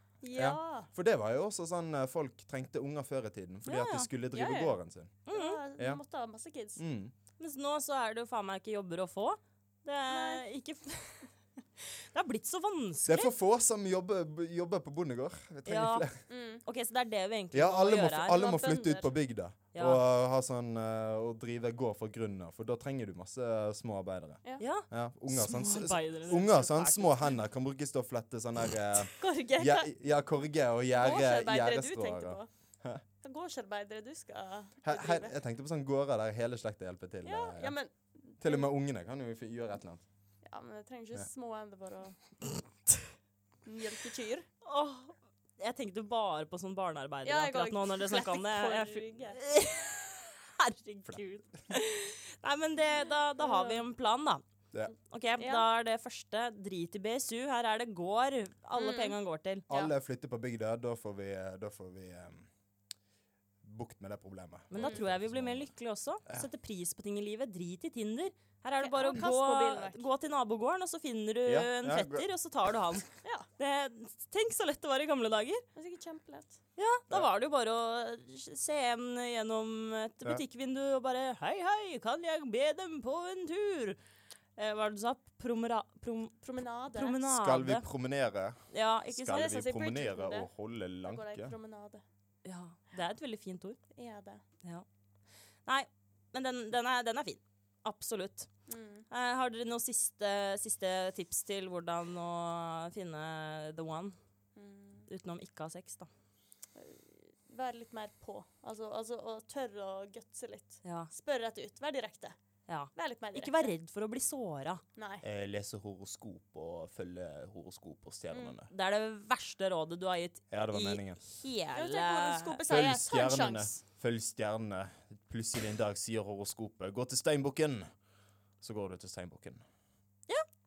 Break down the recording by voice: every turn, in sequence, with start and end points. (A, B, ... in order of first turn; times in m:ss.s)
0:00.2-0:00.9 A
0:00.3-0:05.2 B
0:03.6-0:04.1 C
0:04.3-0:04.8 A
0:05.3-0:05.6 C
0:05.3-0:06.8 A
0:06.8-0:07.1 B
0:07.4-0:13.3 C
0:10.1-0:10.4 A
0:13.0-0:16.2 B
0:15.6-0:16.1 C
0:16.3-0:16.6 A
0:16.6-0:19.1 C
0:17.5-0:33.0 B
0:19.7-0:20.0 C
0:24.6-0:27.4 C
0:29.2-0:29.9 A
0:31.0-0:32.5 A
0:33.2-0:35.4 A
0:34.8-0:37.7 B
0:37.2-0:38.7 A
0:38.4-0:40.0 B
0:40.4-0:42.2 A
0:43.6-0:44.5 A
0:44.6-0:54.4 C
0:47.2-0:49.4 A
0:53.4-0:53.8 A
0:55.1-0:59.6 C
0:55.4-0:55.7 A
0:58.7-0:59.2 A
0:59.7-1:02.5 B
1:03.6-1:05.7 B
1:04.7-1:15.6 C
1:08.8-1:10.0 A
1:11.4-1:12.3 B
1:15.7-1:16.6 A
1:16.8-1:24.0 C
1:24.6-1:26.4 C
1:26.4-1:27.2 A
1:26.9-1:27.9 C
1:27.3-1:31.5 B
1:28.7-1:29.6 C
1:29.3-1:30.5 A
1:31.0-1:32.0 A
1:32.4-1:33.8 C
1:33.9-1:34.4 A
1:35.6-1:38.5 C
1:38.7-1:39.1 A
1:39.1-1:44.2 C
1:44.6-1:45.1 A
1:45.1-1:46.1 C
1:46.7-1:52.4 A
1:50.8-1:51.1 C
1:52.7-1:54.8 C
1:52.9-1:53.7 A
1:55.0-1:55.2 A
1:55.2-1:58.7 B
1:58.3-1:58.6 A
1:58.7-2:02.6 C
2:00.5-2:01.2 B
2:01.7-2:03.8 A
2:02.7-2:07.9 B
2:08.6-2:09.6 B